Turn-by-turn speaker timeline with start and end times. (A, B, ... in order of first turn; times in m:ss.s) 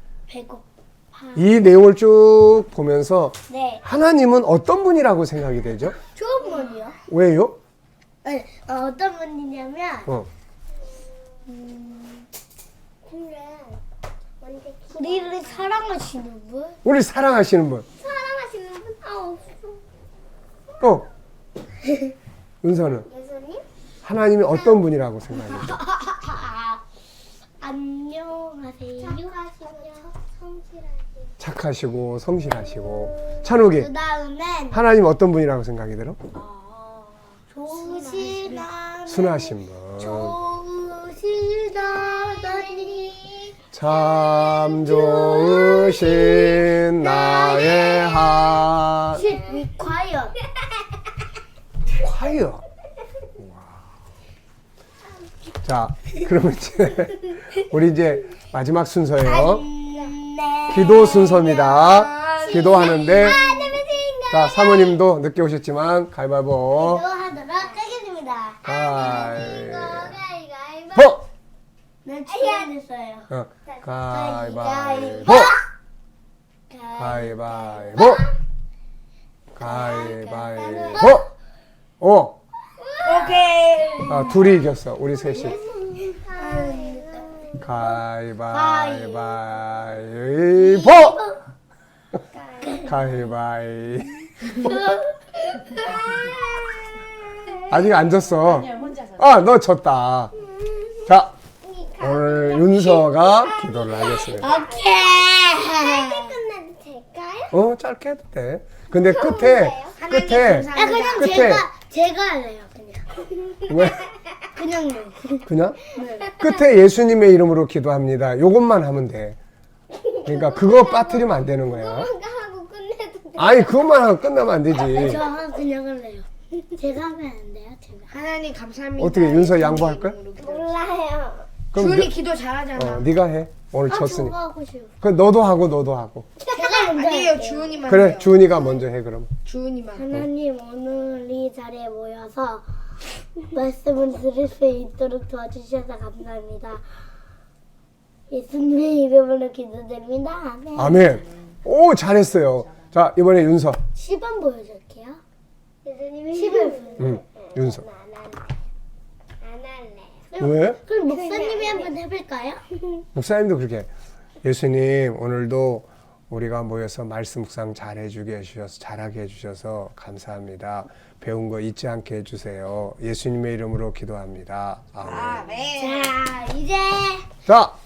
0:00.3-0:01.4 A
0:01.3-0:06.0 B
0:03.5-0:03.8 A
0:06.1-0:07.0 A
0:07.1-0:07.6 B
0:08.2-0:10.1 A
0:10.8-0:11.7 C
0:11.6-0:12.2 A
0:13.0-0:13.8 C
0:14.4-0:15.9 C
0:14.9-0:16.8 A
0:16.8-0:17.8 B
0:18.0-0:19.8 C
0:20.8-0:21.1 B
0:22.6-0:23.1 B
0:23.0-0:23.6 C
0:24.0-0:25.8 B
0:26.1-0:26.8 A
0:27.6-0:29.3 A
0:29.0-0:31.4 C
0:31.4-0:33.9 B
0:33.5-0:34.8 A
0:34.7-0:36.2 B
0:36.3-0:38.7 D
0:37.5-0:48.5 A
0:37.8-0:38.3 C
0:39.1-0:40.3 B
0:43.7-0:49.2 B
0:49.1-0:50.3 A
0:51.9-0:52.6 B
0:53.4-0:53.8 B
0:55.6-0:59.6 B
0:59.2-1:03.8 A
1:00.7-1:03.4 B
1:02.3-1:04.9 C
1:04.3-1:07.0 B
1:06.7-1:09.4 A
1:08.6-1:10.1 B
1:08.9-1:11.2 C
1:10.9-1:11.2 B
1:12.0-1:13.3 A
1:12.3-1:12.7 C
1:13.3-1:15.5 B
1:13.6-1:14.4 C
1:14.1-1:15.6 A
1:14.9-1:15.5 C
1:16.7-1:18.0 A
1:17.0-1:18.2 B
1:17.6-1:18.3 C
1:19.6-1:21.3 B
1:19.6-1:21.0 D
1:20.6-1:21.0 C
1:22.0-1:22.4 B
1:23.0-1:24.6 D
1:23.1-1:23.4 A
1:24.1-1:25.6 B
1:25.3-1:27.7 C
1:26.4-1:27.2 D
1:27.6-1:31.2 B
1:28.5-1:29.4 A
1:30.5-1:31.4 A
1:32.3-1:33.2 C
1:32.8-1:34.3 B
1:34.5-1:36.6 A
1:35.8-1:36.3 C
1:37.7-1:40.3 B
1:38.5-1:39.2 D
1:40.4-1:41.1 C
1:41.0-1:41.3 B
1:41.6-1:47.6 C
1:42.0-1:44.5 B
1:44.4-1:46.4 A
1:47.5-1:51.6 B
1:48.9-1:50.0 C
1:49.9-1:51.5 D
1:50.7-1:53.3 A
1:53.7-1:54.1 B
1:54.5-1:56.3 A
1:55.4-1:55.8 B
1:56.2-1:56.5 C
1:56.4-1:59.4 B
2:00.0-2:03.9 C
2:00.2-2:02.1 B
2:03.4-2:05.2 B
2:04.9-2:08.1 A
2:04.9-2:05.3 C
2:08.1-2:10.7 D
2:09.0-2:10.2 B
2:10.4-2:11.5 C
2:11.7-2:12.1 B
2:11.7-2:13.1 D
2:12.7-2:14.4 B
2:13.9-2:14.9 A
2:15.0-2:16.3 B
2:16.4-2:16.9 C
2:16.5-2:17.8 A
2:16.7-2:18.5 D
2:17.9-2:19.3 B
2:19.4-2:20.1 D
2:19.9-2:22.6 A
2:23.4-2:26.8 A
2:28.3-2:31.0 A
2:30.7-2:33.8 B
2:33.9-2:35.2 A
2:35.8-2:38.5 C
2:36.3-2:37.1 A
2:37.0-2:37.8 B
2:39.4-2:40.4 C
2:40.3-2:42.6 A
2:40.4-2:40.8 B
2:40.9-2:41.9 C
2:43.1-2:43.9 B
2:44.4-2:55.5 B
2:55.0-2:56.1 D
2:55.8-2:57.3 A
2:57.4-2:57.7 B